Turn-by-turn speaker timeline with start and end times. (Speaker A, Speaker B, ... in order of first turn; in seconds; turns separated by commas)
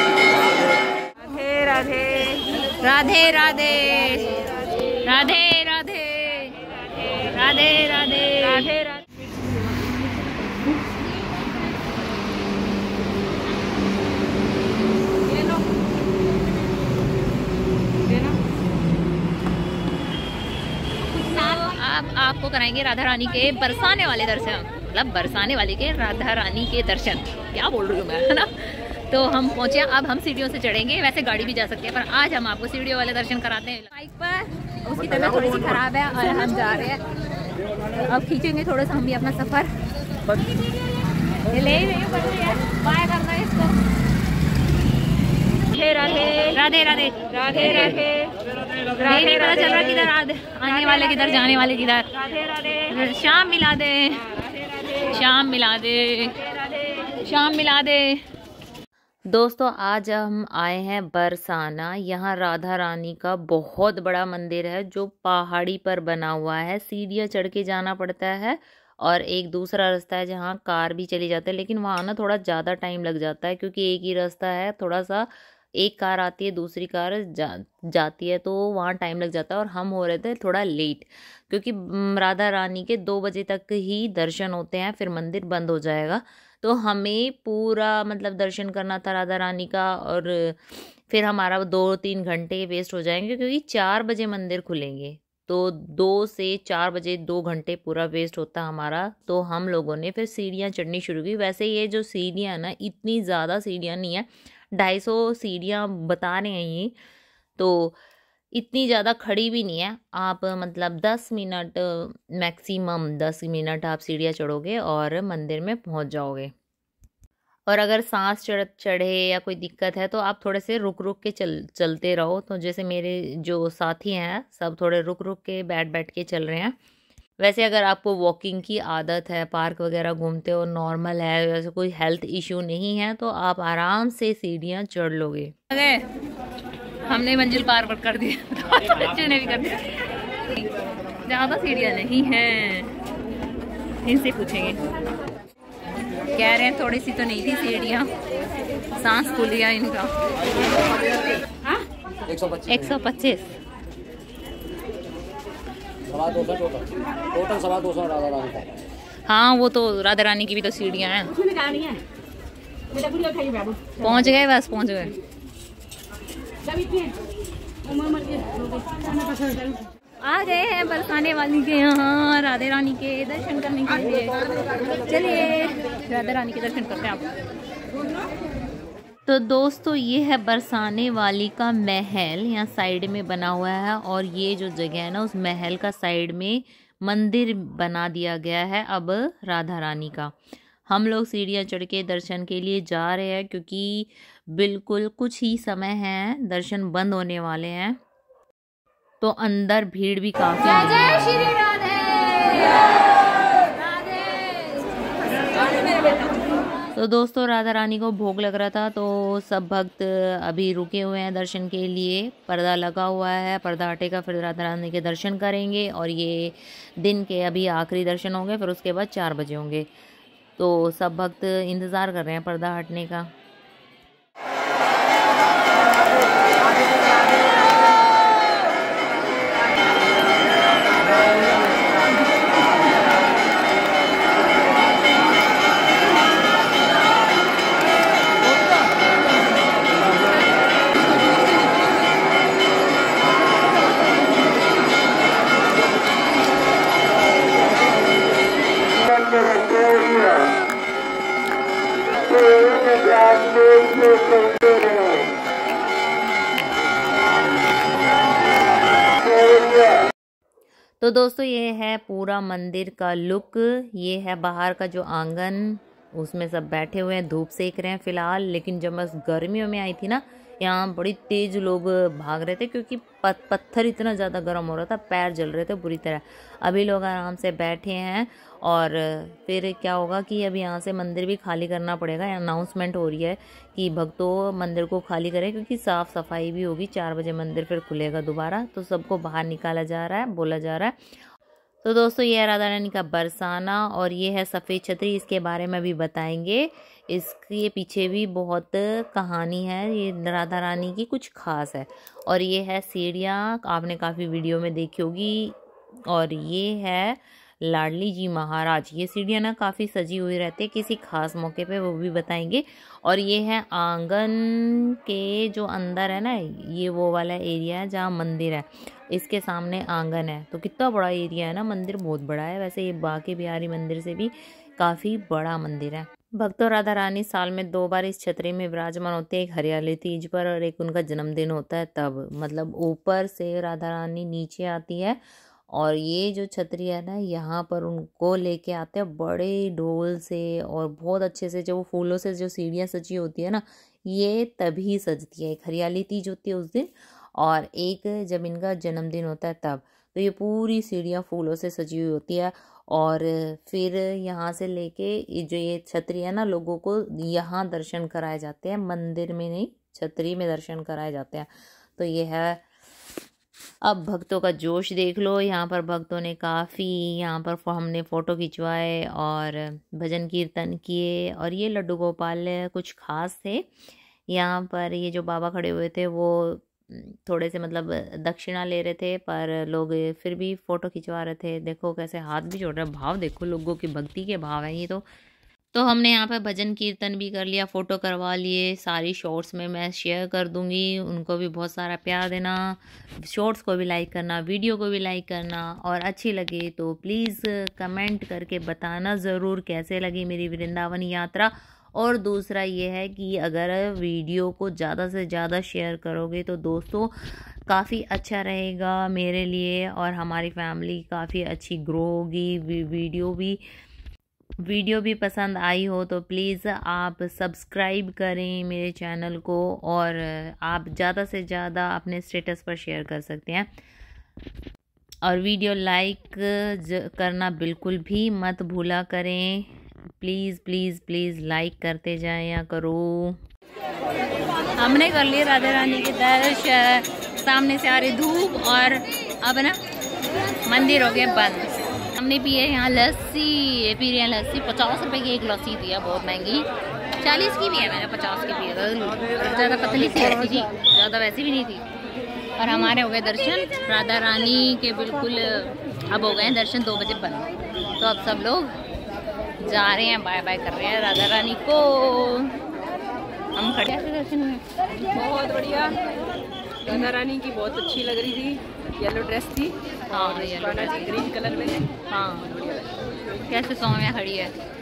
Speaker A: 1.5-2.5, Speaker B: 2.8-4.2, Speaker B: 5.1-6.4, Speaker B: 7.3-8.7, Speaker A: 21.4-21.7, Speaker B: 21.5-37.0, Speaker A: 35.2-35.6, Speaker B: 38.0-39.7, Speaker B: 41.5-43.7, Speaker B: 46.2-48.1, Speaker B: 49.0-52.1, Speaker A: 49.0-49.3, Speaker B: 52.9-54.2, Speaker B: 55.1-56.3, Speaker B: 57.2-58.2, Speaker B: 59.3-106.9, Speaker B: 107.6-108.0, Speaker B: 108.5-116.5, Speaker B: 117.7-126.7, Speaker B: 127.4-136.0, Speaker B: 137.1-139.8, Speaker B: 141.2-142.9, Speaker B: 144.0-144.8, Speaker B: 146.4-148.0, Speaker B: 149.0-150.0, Speaker B: 152.7-153.5, Speaker C: 156.2-156.8, Speaker C: 157.4-158.6, Speaker B: 159.3-161.3, Speaker A: 164.0-164.3, Speaker B: 164.1-165.1, Speaker B: 170.2-174.2, Speaker A: 173.9-174.4, Speaker B: 175.0-177.2, Speaker B: 179.2-190.3, Speaker B: 190.9-198.0, Speaker B: 199.2-201.7, Speaker B: 206.9-219.9, Speaker B: 220.6-223.3, Speaker B: 261.0-290.9, Speaker B: 291.8-305.6, Speaker B: 306.1-335.2, Speaker B: 335.7-362.6, Speaker B: 363.8-373.7, Speaker B: 374.3-385.0, Speaker B: 385.7-407.1, Speaker B: 407.7-413.6, Speaker B: 414.6-423.7, Speaker B: 425.2-433.4, Speaker B: 434.8-439.8, Speaker B: 440.7-446.6, Speaker B: 447.2-451.8, Speaker A: 449.1-450.7, Speaker B: 452.6-455.4, Speaker A: 453.3-453.8, Speaker A: 455.1-455.3, Speaker B: 456.1-457.4, Speaker B: 458.0-458.7, Speaker B: 459.7-461.9, Speaker A: 461.9-462.4, Speaker B: 463.6-464.5, Speaker A: 465.1-465.9, Speaker A: 466.9-471.6, Speaker B: 470.1-471.3, Speaker B: 472.1-472.4, Speaker B: 473.5-474.5